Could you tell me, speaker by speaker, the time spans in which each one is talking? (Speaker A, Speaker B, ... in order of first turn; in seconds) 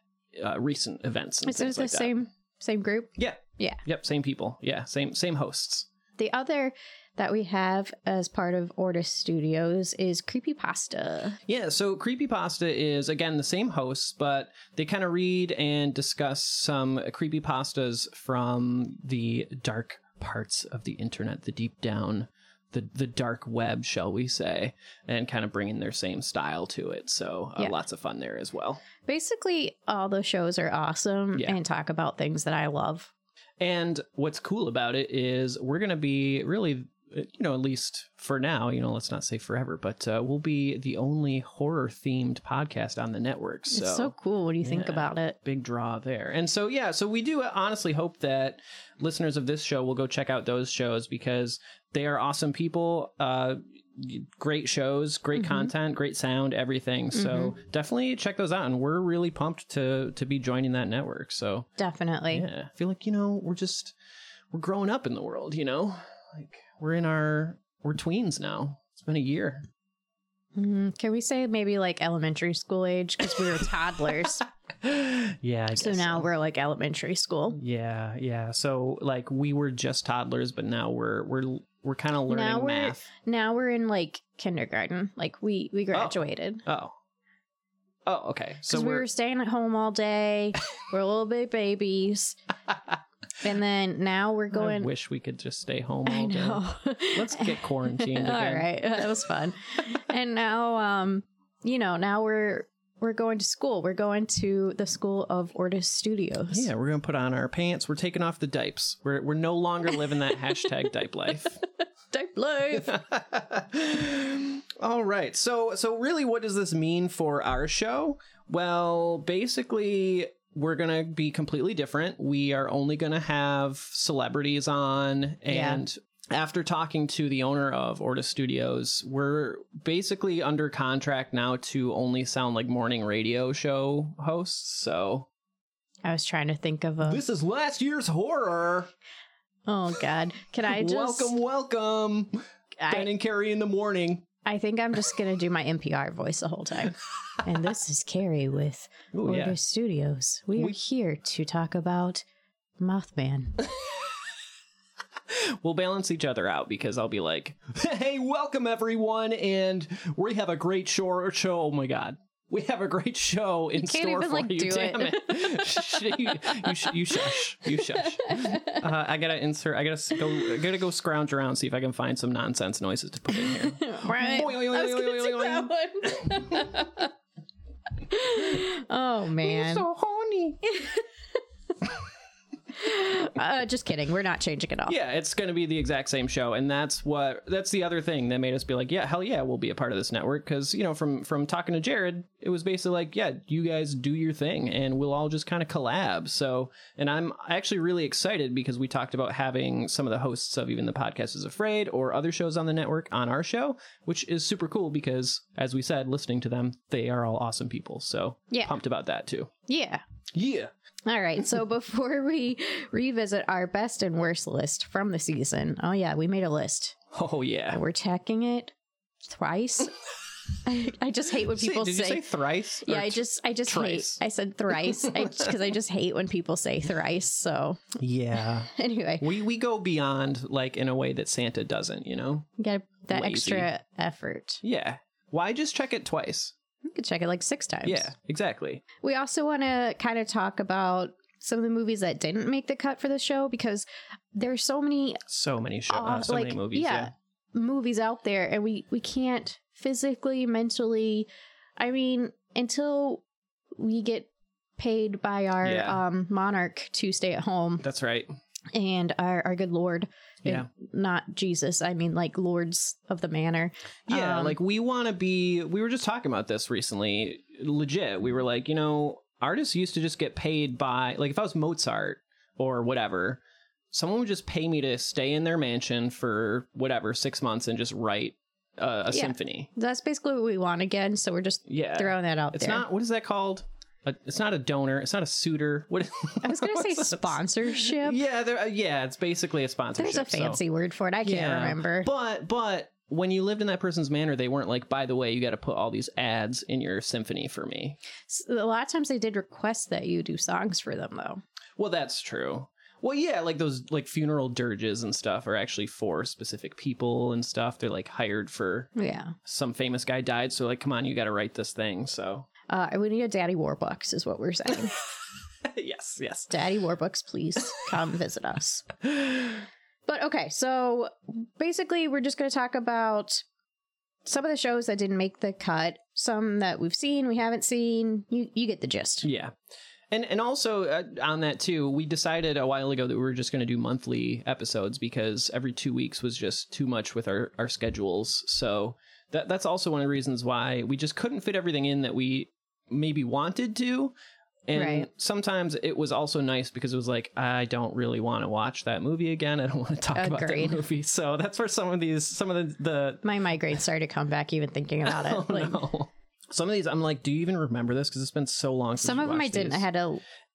Speaker A: 0.4-2.1, 3.2-5.9, 11.5-28.8, 33.6-61.7, 62.3-64.0, 64.5-69.6, 74.8-76.3, 77.5-83.1, 85.9-87.0, 88.1-89.1, 94.5-99.2, 106.5-111.6, 112.7-135.3, 137.0-138.9, 140.7-144.3, 149.1-149.6, 155.3-176.8, 179.4-180.7, 184.9-209.5, 210.3-210.7, 217.1-217.8, 221.5-224.2, 224.9-225.5, 228.0-232.5, 233.1-233.7, 234.6-236.5, 237.8-238.8, 245.3-247.1, 255.6-256.0, 257.8-258.3, 264.1-273.4, 273.9-279.7, 281.7-290.6, 291.2-298.0, 301.8-308.9, 309.4-312.5, 315.7-316.5, 319.1-319.6, 329.2-329.5, 330.1-344.1, 344.7-353.2, 355.1-359.9
Speaker B: 1.4-3.8, 6.2-11.4, 29.1-33.1, 43.7-45.4, 55.4-55.7, 57.1-57.5, 61.8-62.5, 70.6-74.4, 75.8-77.6, 82.3-86.6, 88.7-92.4, 93.4-94.9, 96.1-106.7, 112.1-112.9, 125.5-125.8, 136.0-137.2, 139.7-141.4, 142.8-143.1, 144.4-152.2, 152.8-153.6, 163.8-168.8, 173.3-177.1, 178.1-179.9, 182.7-184.9, 208.5-208.8, 209.7-210.0, 211.1-217.0, 217.7-219.9, 220.6-222.3, 222.8-228.0, 228.7-229.3, 232.6-234.6, 236.9-238.1, 239.0-245.2, 245.9-253.2, 253.8-257.8, 258.7-264.6, 279.1-282.9, 286.4-288.2, 290.0-292.1, 298.3-301.4, 308.9-309.4, 312.7-314.9, 316.5-319.0, 320.1-323.4, 324.2-329.3, 344.8-345.1, 350.1-350.8, 353.2-355.8, 359.0-360.2